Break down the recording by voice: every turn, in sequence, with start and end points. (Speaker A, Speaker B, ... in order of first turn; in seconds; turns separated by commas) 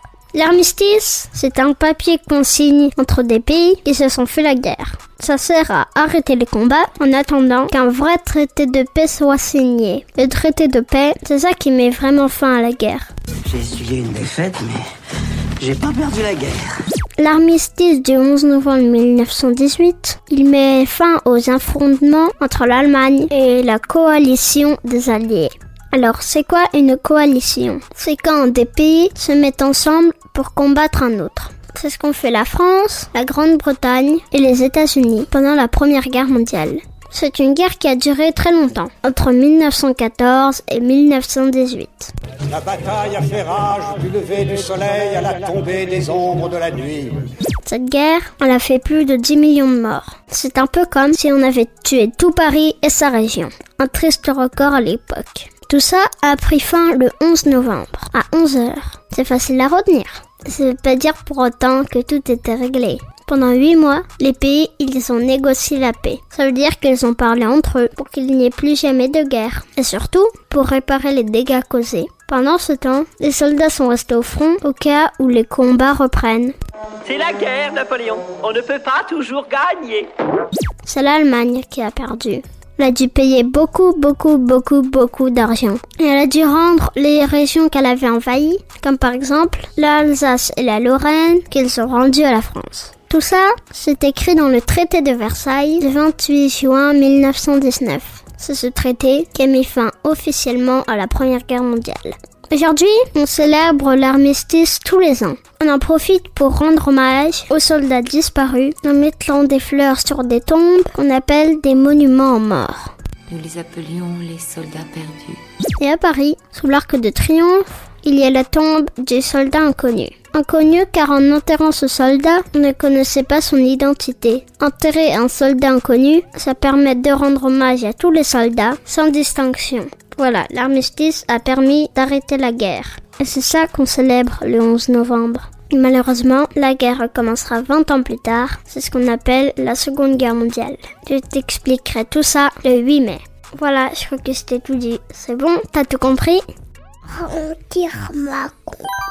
Speaker A: 0.3-13.1, Speaker B: 13.5-14.8, Speaker B: 15.6-16.8, Speaker A: 17.2-42.1, Speaker C: 42.5-47.2, Speaker A: 47.6-76.5, Speaker D: 77.0-80.1, Speaker A: 80.8-112.9, Speaker E: 113.3-115.4, Speaker A: 115.8-146.4, Speaker D: 147.2-148.8, Speaker A: 147.7-148.5